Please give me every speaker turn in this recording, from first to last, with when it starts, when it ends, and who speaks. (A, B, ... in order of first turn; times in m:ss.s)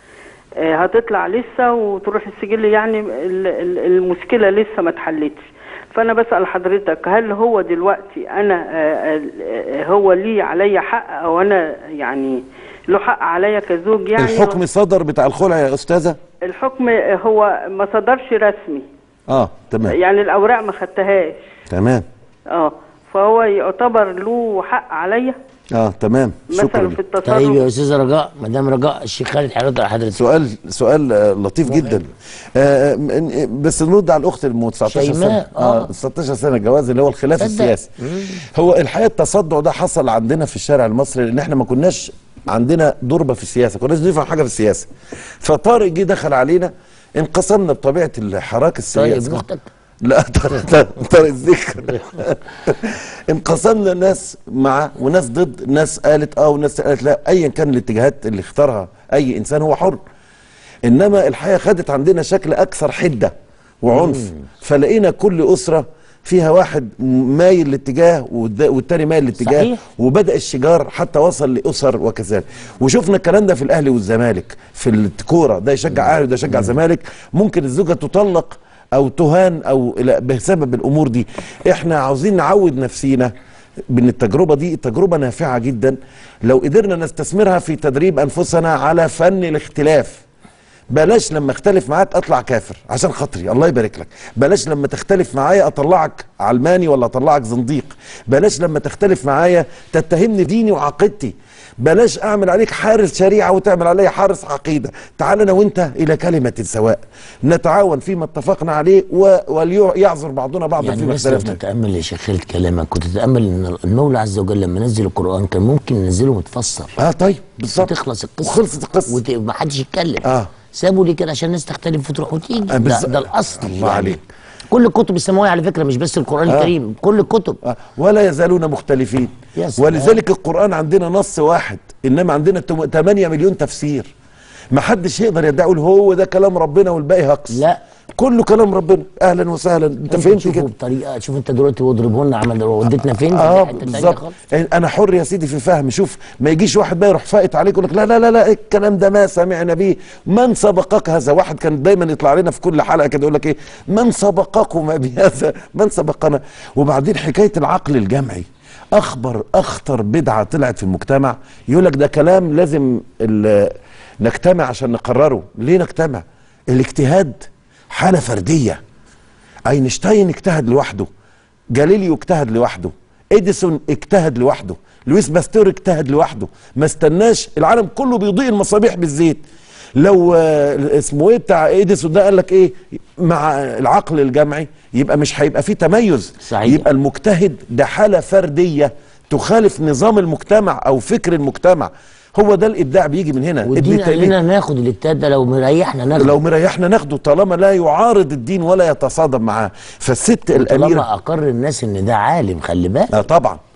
0:00.6-0:14.6 A
0:14.2-0:16.2 B
0:16.4-0:18.8 A
0:19.3-0:20.0 B
0:19.8-0:21.4 A
0:21.7-0:22.0 B
0:22.5-0:25.4 A
0:25.7-0:27.0 B
0:26.5-0:27.6 A
0:27.2-0:30.2 C
0:30.2-0:44.9 B
0:34.9-0:35.9 C
0:37.4-0:38.4 C
0:45.4-0:49.4 B
0:48.9-0:49.7 C
0:50.0-1:00.0 B
1:00.8-1:23.3 B
1:03.9-1:04.4 C
1:09.4-1:09.8 C
1:23.9-1:30.2 B
1:30.9-1:51.6 B
1:50.8-1:57.0 C
1:57.0-1:59.2 B
1:57.8-2:07.6 C
2:00.2-2:00.5 B
2:02.7-2:04.2 B
2:06.5-2:06.7 B
2:07.6-2:14.1 B
2:09.6-2:10.2 C
2:14.7-2:17.6 B
2:17.5-2:17.8 C
2:18.2-2:20.7 B
2:20.1-2:24.4 C
2:23.3-2:48.8 B
2:49.7-2:51.1 B
2:51.7-2:59.4 B
3:00.0-3:14.4 B
3:06.4-3:06.8 C
3:13.6-3:16.3 C
3:16.2-3:21.1 B
3:20.5-3:23.1 C
3:23.1-3:23.6 B